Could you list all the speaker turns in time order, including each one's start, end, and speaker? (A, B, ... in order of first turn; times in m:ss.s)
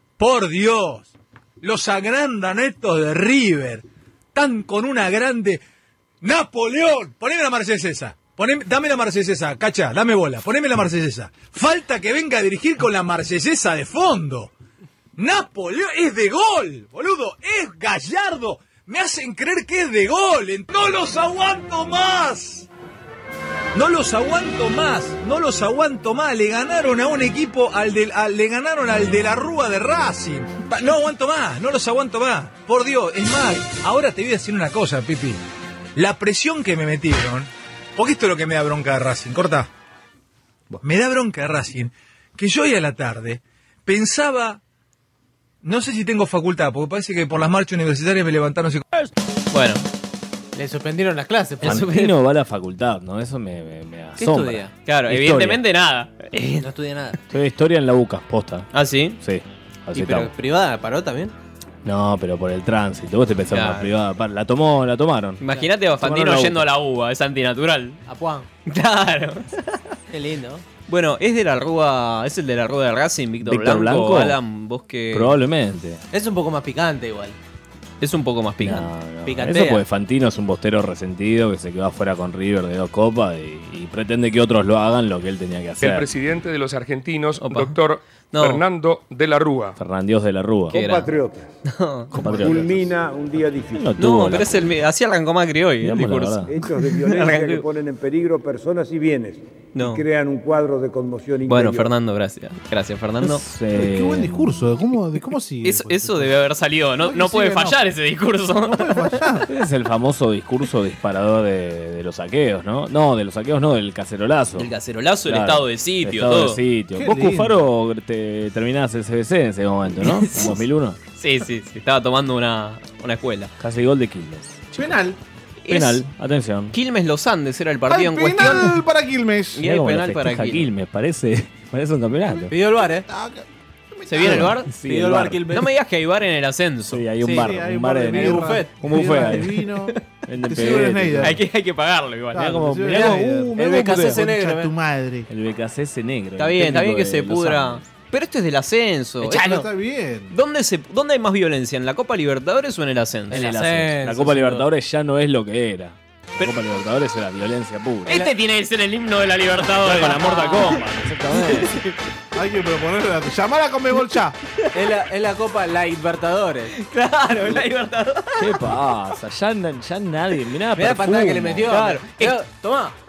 0:00.2-0:05.6 A
0:06.2-0:14.5 A
0:15.2-0:22.7 A
0:23.7-0:35.4 A
0:36.0-0:39.7 A
0:40.8-0:44.6 A
0:45.6-0:48.8 A
0:49.5-0:49.8 B
0:50.5-0:51.9 C
0:51.6-0:52.1 B
0:51.6-0:55.6 D
0:54.2-0:54.7 C
0:54.8-0:56.6 B
0:56.6-0:57.2 C
0:57.3-1:00.3 D
0:58.7-0:59.2 B
0:59.9-1:01.3 C
1:01.8-1:05.4 D
1:03.5-1:03.9 B
1:05.4-1:08.0 B
1:06.0-1:06.7 D
1:08.0-1:08.5 C
1:08.6-1:09.8 B
1:10.1-1:10.6 C
1:10.9-1:15.3 B
1:13.4-1:14.4 D
1:15.1-1:16.0 D
1:16.1-1:17.4 C
1:18.0-1:18.9 B
1:18.6-1:26.1 D
1:19.2-1:19.8 C
1:25.8-1:29.8 E
1:27.4-1:27.8 B
1:28.3-1:28.6 B
1:29.8-1:30.8 D
1:30.7-1:31.6 F
1:30.7-1:31.1 B
1:31.7-1:32.1 B
1:32.1-1:32.9 D
1:32.1-1:34.0 F
1:33.7-1:34.7 D
1:34.0-1:36.5 B
1:35.8-1:36.5 D
1:36.5-1:41.9 F
1:37.0-1:37.6 B
1:39.7-1:40.0 B
1:41.5-1:43.4 B
1:43.2-1:44.6 D
1:43.7-1:46.4 G
1:45.6-1:49.2 B
1:47.0-1:47.8 G
1:48.6-1:49.5 G
1:49.5-1:54.7 D
1:54.6-1:56.6 B
1:55.2-2:01.0 D
1:57.0-1:57.6 G
2:00.0-2:00.6 B
2:01.2-2:03.5 B
2:03.6-2:04.6 D
2:04.7-2:05.2 G
2:05.6-2:06.0 B
2:05.7-2:06.7 D
2:06.7-2:08.7 B
2:07.9-2:09.6 G
2:09.6-2:10.6 B
2:09.6-2:12.5 D
2:12.5-2:13.1 C
2:13.1-2:13.4 G
2:14.0-2:14.5 G
2:14.1-2:14.7 B
2:14.2-2:15.6 D
2:14.3-2:15.7 C
2:15.5-2:17.0 B
2:16.9-2:19.6 D
2:17.2-2:17.5 C
2:17.3-2:19.9 G
2:18.1-2:18.8 C
2:20.2-2:21.4 D
2:20.5-2:21.4 G
2:21.2-2:22.5 B
2:22.3-2:25.3 G
2:22.3-2:24.2 D
2:22.9-2:24.7 C
2:25.3-2:27.9 D
2:26.4-2:29.7 B
2:29.2-2:30.3 G
2:30.3-2:33.6 B
2:33.3-2:34.7 C
2:33.3-2:38.3 D
2:38.0-2:40.8 B
2:39.6-2:41.8 D
2:41.4-2:41.9 B
2:42.3-2:44.4 G
2:44.7-2:46.7 C
2:46.7-2:48.5 B
2:48.4-2:51.9 D
2:50.8-2:52.9 C
2:51.7-2:52.4 B